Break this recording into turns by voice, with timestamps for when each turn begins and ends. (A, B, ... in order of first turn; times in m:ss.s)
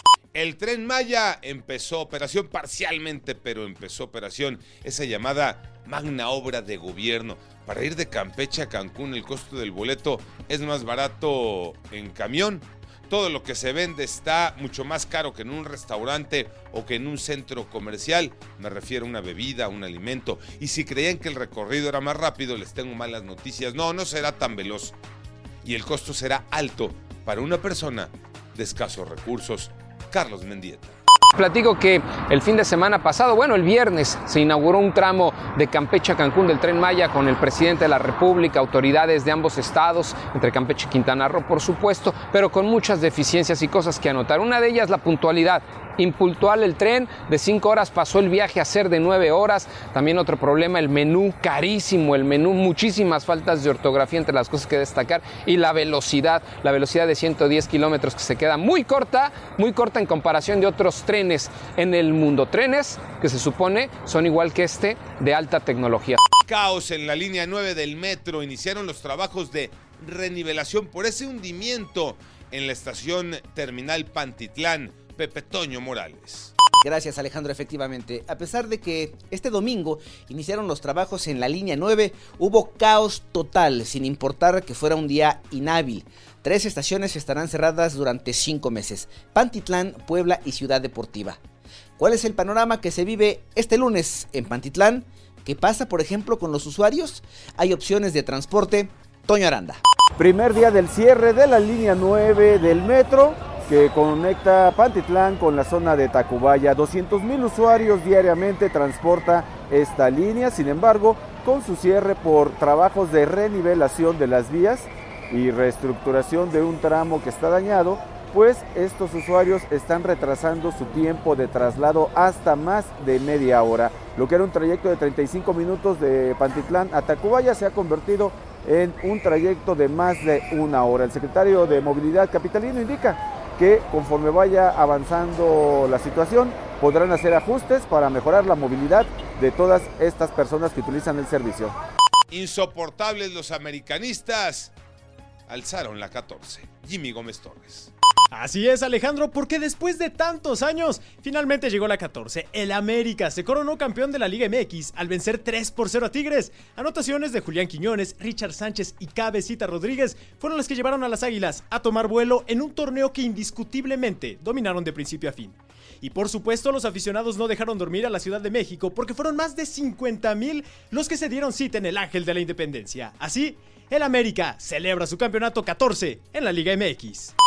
0:00.3-0:25.0 A
0:25.6-0:31.0 A
0:31.3-1:06.2 B
1:06.5-1:16.5 A
1:16.8-1:31.4 C
1:32.0-1:39.8 C
1:40.2-2:21.7 D
2:22.3-2:24.7 A
2:25.5-2:27.9 A
2:28.3-2:57.3 E